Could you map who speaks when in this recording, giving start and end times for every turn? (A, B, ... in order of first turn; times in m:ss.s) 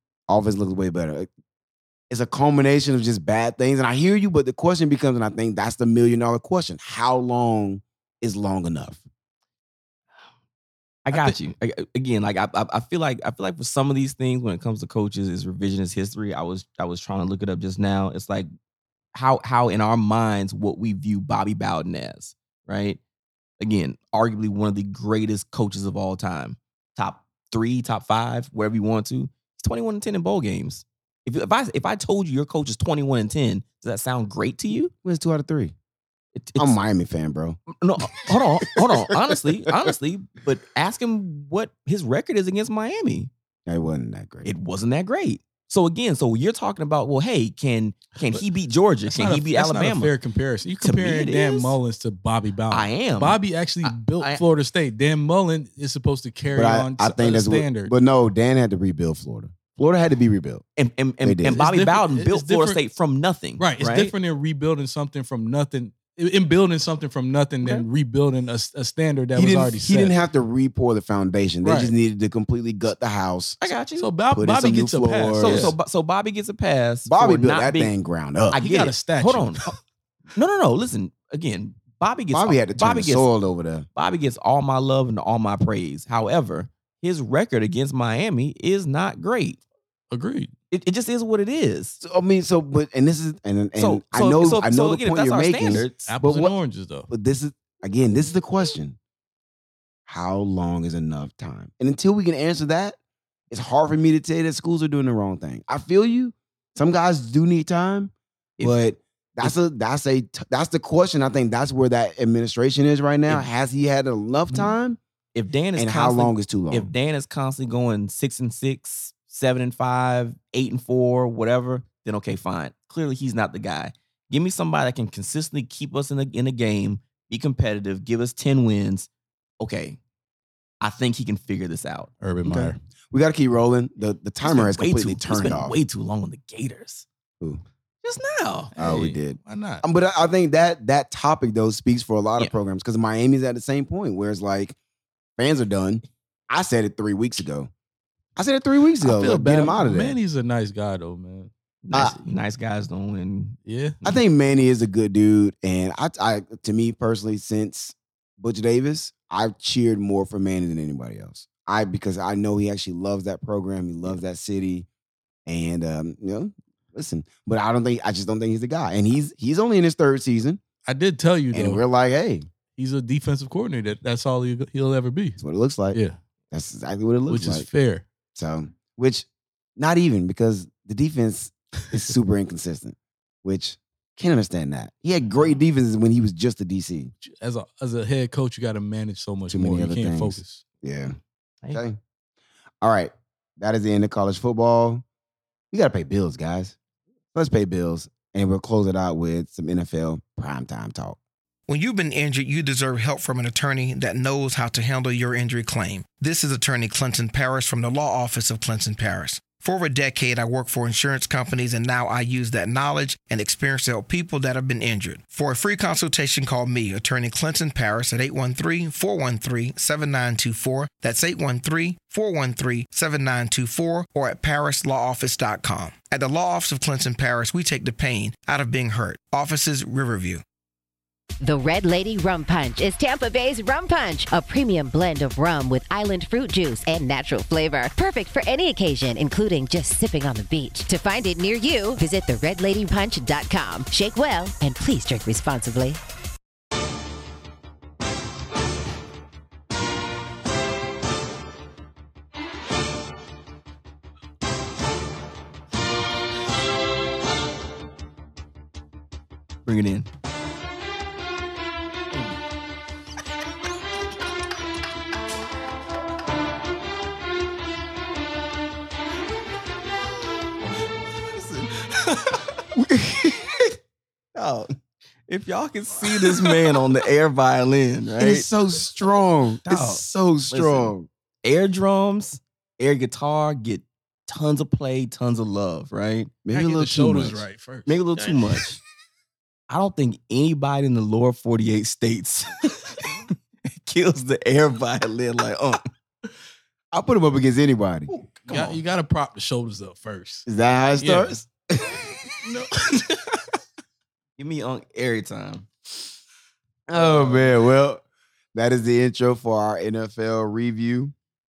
0:00.3-0:01.3 A
0:02.1-0:09.0 A
0:11.0-0:18.5 B
0:11.1-0:11.4 C
0:19.1-0:23.0 B
0:23.6-0:34.9 B
0:35.0-0:35.7 A
0:36.4-0:36.8 B
0:36.6-0:37.6 A
0:37.7-0:43.3 B
0:38.1-0:39.4 A
0:43.7-0:44.5 A
0:44.4-0:50.1 B
0:49.1-0:57.9 C
0:50.8-0:51.8 B
0:52.7-0:54.4 B
0:56.5-1:00.6 A
1:00.8-1:04.1 B
1:01.2-1:01.6 A
1:01.5-1:02.8 C
1:03.6-1:10.2 C
1:09.4-1:13.6 A
1:11.6-1:11.9 C
1:13.6-1:14.1 B
1:14.0-1:15.8 C
1:14.3-1:15.7 A
1:15.4-1:17.9 B
1:17.1-1:18.6 A
1:18.5-1:19.7 B
1:18.5-1:19.7 C
1:20.3-1:23.3 B
1:22.3-1:23.9 A
1:24.0-1:29.6 B
1:30.1-1:30.5 C
1:30.7-1:32.0 B
1:32.0-1:36.6 A
1:33.8-1:36.1 B
1:35.8-1:37.1 C
1:37.1-1:39.0 A
1:40.1-1:43.0 A
1:43.5-1:55.0 A
1:55.3-2:09.1 B
1:55.8-1:56.9 A
2:09.6-2:10.0 B
2:10.8-2:12.1 B
2:12.2-2:12.8 C
2:12.4-2:15.8 A
2:14.4-2:17.1 B
2:18.0-2:18.7 B
2:18.8-2:19.8 C
2:18.8-2:24.8 A
2:25.4-2:27.7 A
2:28.4-2:30.2 A
2:29.0-2:31.5 C
2:31.8-2:33.6 B
2:33.7-2:34.0 C
2:34.0-2:44.9 A
2:45.5-2:50.6 A
2:50.9-2:51.8 C
2:51.5-2:52.5 A
2:52.8-2:55.4 C
2:55.4-2:56.0 A
2:56.5-2:57.7 A
2:57.3-2:58.0 C
2:58.4-3:07.1 A
3:07.2-3:10.6 C
3:09.5-3:11.2 A
3:11.7-3:12.0 A
3:12.8-3:15.0 A
3:15.7-3:16.8 A
3:17.3-3:21.2 A
3:21.7-3:50.4 D
3:51.4-4:06.0 E
4:19.6-4:20.1 B
4:31.3-4:31.7 B
4:32.7-4:33.8 A
4:34.4-4:34.7 B
4:35.3-4:38.5 B
4:38.2-4:41.1 A
4:39.7-4:40.9 B
4:41.4-4:46.3 B
4:46.4-4:47.4 A
4:46.5-4:48.4 C
4:47.9-4:48.8 B
4:49.7-4:52.7 B
4:53.7-4:55.8 B
4:56.9-4:58.1 A
4:58.1-4:58.8 B
4:58.5-5:00.5 C
5:00.5-5:02.3 A
5:01.0-5:01.4 C
5:02.4-5:03.3 C
5:04.4-5:05.7 B
5:06.9-5:11.1 A